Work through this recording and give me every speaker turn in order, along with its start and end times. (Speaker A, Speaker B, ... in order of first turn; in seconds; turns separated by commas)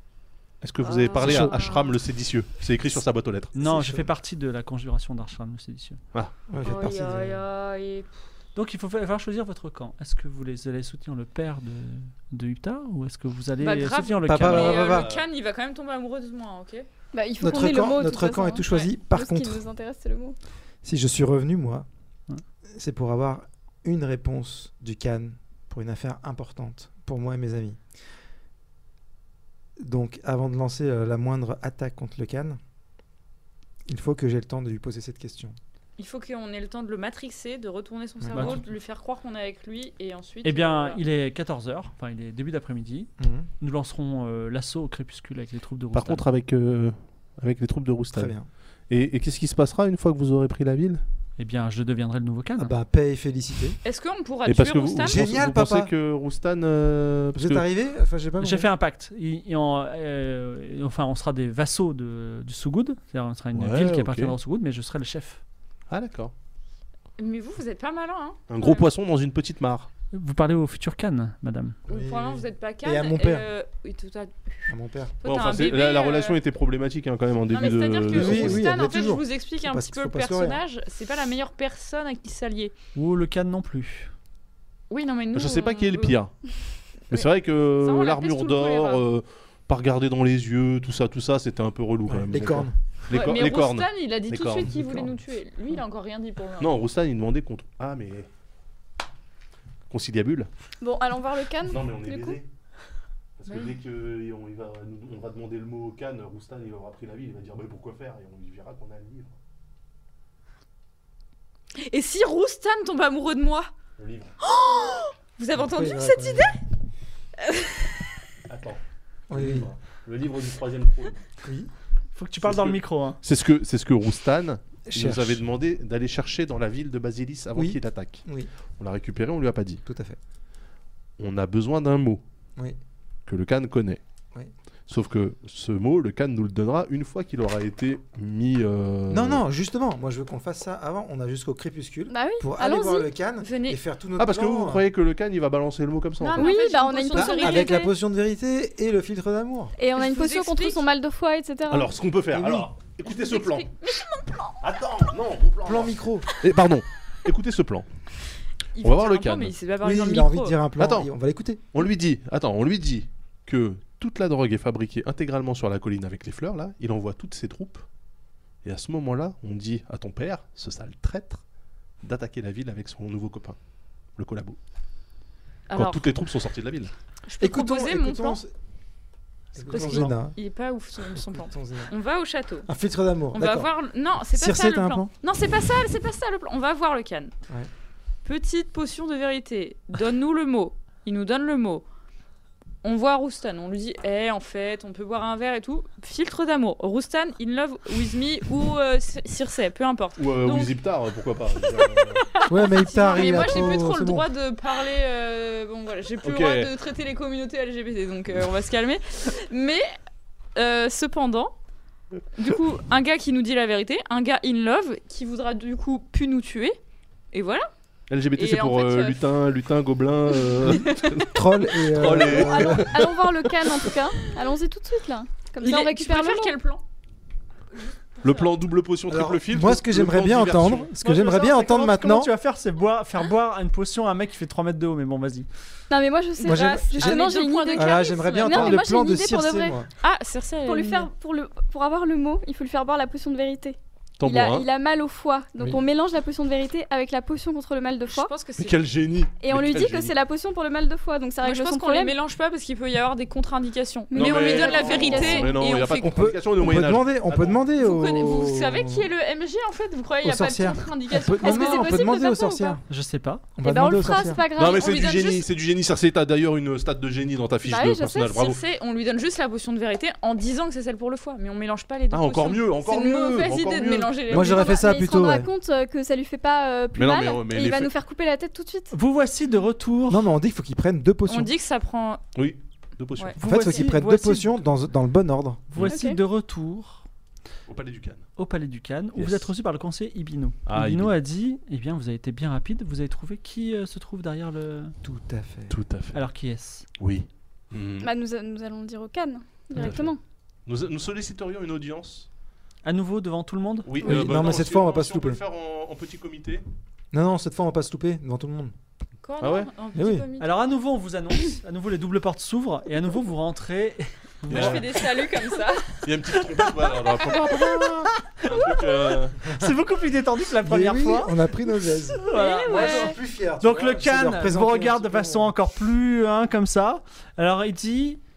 Speaker A: 0.6-3.5, Speaker B: 0.8-1.9, Speaker C: 3.5-6.0, Speaker D: 3.6-4.1, Speaker D: 6.5-7.4, Speaker B: 6.6-8.1, Speaker C: 8.5-14.8, Speaker B: 13.6-16.9, Speaker D: 14.3-15.1, Speaker A: 14.5-15.2, Speaker E: 17.1-20.4, Speaker D: 17.4-19.6, Speaker D: 20.8-21.9, Speaker D: 22.7-27.8, Speaker D: 29.8-32.6, Speaker D: 33.9-35.6, Speaker B: 36.0-41.0, Speaker D: 38.2-38.6, Speaker C: 38.3-38.6, Speaker C: 40.4-46.2, Speaker D: 43.2-43.5, Speaker A: 45.9-48.3, Speaker D: 48.1-48.5, Speaker A: 48.9-51.0, Speaker C: 51.4-52.7, Speaker D: 52.6-53.8, Speaker B: 53.8-55.2, Speaker A: 54.4-57.6, Speaker D: 55.0-55.9, Speaker D: 57.3-58.7, Speaker C: 58.4-65.4, Speaker A: 63.5-64.3, Speaker A: 65.9-66.3, Speaker B: 67.2-68.9, Speaker A: 68.5-69.9, Speaker C: 70.1-71.8, Speaker D: 71.9-73.5, Speaker B: 71.9-76.4, Speaker D: 74.7-75.2, Speaker A: 75.2-78.6, Speaker B: 77.5-82.7, Speaker D: 78.1-80.6, Speaker C: 82.9-84.1, Speaker B: 84.9-86.2, Speaker A: 85.3-86.3, Speaker A: 87.1-95.1, Speaker B: 87.1-89.0, Speaker D: 92.1-92.7, Speaker B: 93.1-96.7, Speaker A: 96.6-98.3, Speaker A: 99.9-100.5, Speaker E: 100.8-102.4, Speaker A: 101.7-102.5, Speaker A: 103.4-109.3, Speaker B: 111.8-113.7, Speaker A: 114.0-114.3, Speaker B: 114.4-116.6, Speaker D: 115.5-116.5, Speaker B: 117.4-118.0, Speaker A: 118.5-121.2, Speaker D: 119.3-119.7, Speaker D: 121.4-121.7, Speaker C: 122.1-123.2, Speaker A: 122.4-128.2, Speaker D: 124.8-125.4, Speaker D: 127.5-128.5, Speaker A: 128.8-129.8, Speaker D: 129.8-130.2, Speaker A: 131.2-132.2, Speaker A: 133.2-134.0, Speaker A: 134.9-139.4, Speaker D: 139.1-144.8, Speaker E: 142.1-143.1, Speaker B: 143.4-143.8, Speaker A: 144.2-146.5, Speaker B: 146.2-147.9, Speaker E: 146.3-147.9, Speaker D: 147.1-149.7, Speaker E: 149.8-151.9, Speaker B: 149.9-150.9, Speaker A: 151.7-153.7, Speaker D: 152.3-152.7, Speaker B: 153.1-154.5, Speaker A: 154.6-157.8, Speaker D: 155.6-156.3, Speaker B: 158.7-160.6, Speaker A: 158.8-159.5, Speaker D: 159.8-161.6, Speaker A: 160.8-161.1, Speaker A: 161.7-167.8, Speaker A: 168.6-171.4, Speaker A: 172.0-173.6, Speaker A: 174.1-174.6, Speaker B: 175.7-176.1, Speaker A: 175.7-176.9, Speaker B: 177.3-178.4, Speaker D: 177.4-178.5, Speaker D: 179.5-180.4, Speaker B: 179.6-182.7, Speaker D: 181.2-181.9, Speaker D: 182.7-183.7, Speaker B: 183.3-187.3, Speaker D: 184.3-185.1, Speaker B: 188.2-191.8, Speaker B: 192.8-200.8, Speaker A: 200.2-202.4, Speaker B: 201.7-209.9, Speaker D: 202.5-204.3, Speaker A: 206.2-206.7, Speaker B: 210.5-211.5, Speaker B: 212.3-216.8, Speaker B: 217.3-217.7, Speaker A: 218.1-223.9, Speaker B: 218.3-219.2, Speaker D: 221.2-223.0, Speaker E: 222.1-226.5, Speaker B: 225.6-226.8, Speaker B: 227.7-228.5, Speaker A: 228.2-230.9, Speaker D: 229.1-232.3, Speaker C: 231.0-235.5, Speaker E: 235.9-239.8, Speaker B: 236.4-238.8, Speaker D: 236.4-239.9, Speaker B: 240.0-241.1, Speaker E: 240.7-248.3, Speaker A: 244.2-244.7, Speaker B: 248.1-248.8, Speaker A: 248.6-250.1, Speaker E: 249.4-252.2, Speaker B: 251.4-256.2, Speaker E: 254.1-255.6, Speaker A: 254.1-257.6, Speaker D: 256.0-259.1, Speaker B: 257.8-262.1, Speaker D: 260.2-262.8, Speaker E: 261.4-262.8, Speaker C: 262.9-263.5, Speaker D: 263.6-264.5, Speaker E: 263.6-265.0, Speaker B: 264.0-265.4, Speaker A: 264.5-268.6, Speaker E: 267.6-268.2, Speaker B: 268.1-274.9, Speaker A: 272.1-274.4, Speaker D: 274.3-275.5, Speaker E: 274.3-278.9, Speaker A: 276.9-277.9, Speaker C: 278.9-280.3, Speaker D: 280.1-281.5, Speaker B: 281.3-282.2, Speaker A: 282.3-283.4, Speaker C: 283.4-284.6, Speaker D: 283.4-285.7, Speaker C: 285.7-287.0, Speaker E: 285.9-286.2, Speaker A: 287.7-288.2, Speaker C: 288.4-294.9, Speaker A: 289.1-289.5, Speaker A: 290.6-291.1, Speaker D: 295.0-295.8, Speaker A: 295.7-296.2, Speaker C: 296.1-296.9, Speaker A: 297.0-298.1, Speaker E: 298.0-300.2, Speaker A: 299.7-300.1, Speaker A: 300.6-302.3, Speaker C: 302.8-304.0, Speaker A: 303.8-306.6, Speaker D: 304.0-305.4, Speaker D: 307.1-308.7, Speaker B: 309.2-310.5, Speaker A: 309.4-309.7, Speaker D: 309.9-310.3, Speaker C: 310.4-315.2, Speaker A: 314.5-314.9, Speaker B: 314.5-316.0, Speaker A: 316.0-319.4, Speaker C: 318.0-318.6, Speaker C: 319.4-321.4, Speaker D: 320.6-325.5, Speaker C: 322.2-328.2, Speaker B: 322.3-323.2, Speaker E: 322.7-322.9